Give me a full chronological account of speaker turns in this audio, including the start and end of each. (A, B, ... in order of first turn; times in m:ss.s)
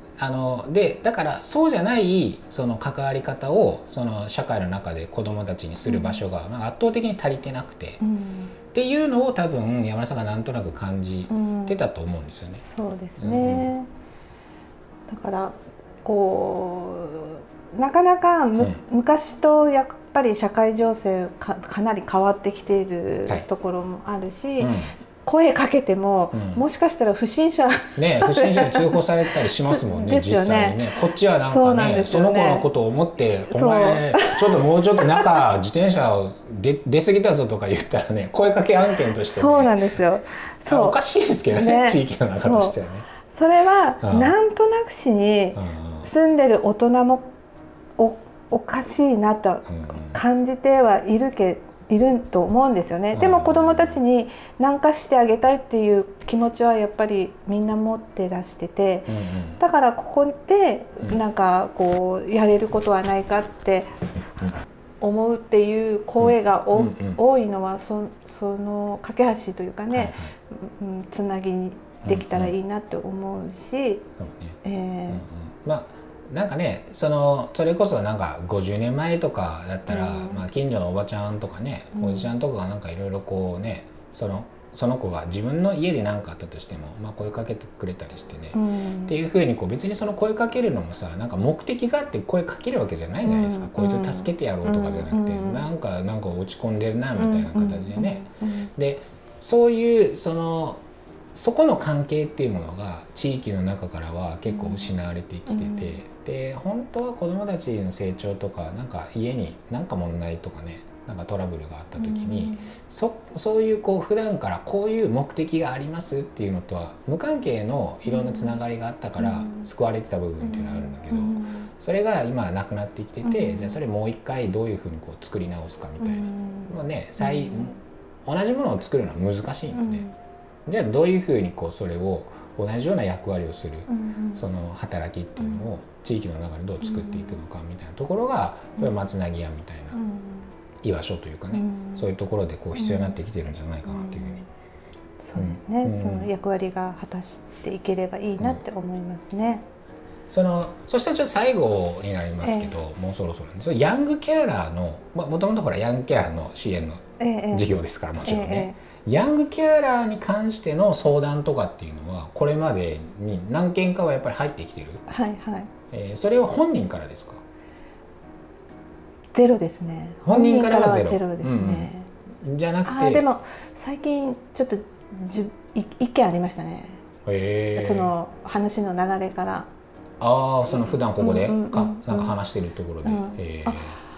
0:00.2-0:08.0 A
0:05.8-0:06.2 B
0:08.0-0:08.5 B
0:08.7-0:12.6 A
0:11.3-0:11.8 B
0:12.6-0:13.9 B
0:13.2-0:13.7 A
0:15.1-0:32.7 B
0:24.6-0:24.9 A
0:26.3-0:26.6 A
0:28.0-0:40.0 A
0:33.5-0:35.4 B
0:39.2-0:41.0 B
0:40.6-0:43.1 A
0:41.5-0:47.3 B
0:44.0-0:44.3 A
0:45.6-0:46.1 A
0:48.0-1:14.1 B
0:49.7-0:50.2 A
0:53.1-0:54.0 A
0:59.1-0:59.6 A
1:06.2-1:07.2 A
1:09.9-1:10.3 A
1:12.0-1:12.5 A
1:14.2-1:14.6 A
1:14.6-1:15.2 B
1:15.1-1:40.8 A
1:19.9-1:20.4 B
1:22.0-1:22.3 B
1:28.5-1:29.1 B
1:33.2-1:35.6 B
1:37.2-1:38.7 B
1:41.3-2:10.0 A
1:44.5-1:44.9 B
1:45.5-1:46.0 B
1:52.0-1:52.7 B
1:58.1-1:58.6 B
1:59.2-1:59.7 B
2:00.4-2:01.7 B
2:03.2-2:03.8 B
2:06.0-2:07.7 B
2:09.7-2:10.1 B
2:10.6-2:20.0 A
2:13.9-2:14.4 B
2:16.8-2:17.4 B
2:19.9-2:20.5 B
2:20.8-2:24.4 A
2:21.5-2:22.1 B
2:22.8-2:23.2 B
2:23.9-2:24.4 B
2:25.2-2:29.6 B
2:25.3-2:26.3 A
2:30.3-2:45.0 A
2:32.4-2:32.7 B
2:37.2-2:37.7 B
2:38.2-2:38.8 B
2:45.1-2:45.7 B
2:45.9-2:47.4 A
2:49.3-2:52.1 B
2:50.2-2:53.3 A
2:52.8-2:57.0 B
2:57.2-2:58.1 A
2:57.7-2:59.7 B
3:00.2-3:04.0 A
3:00.7-3:02.4 B
3:03.0-3:03.9 B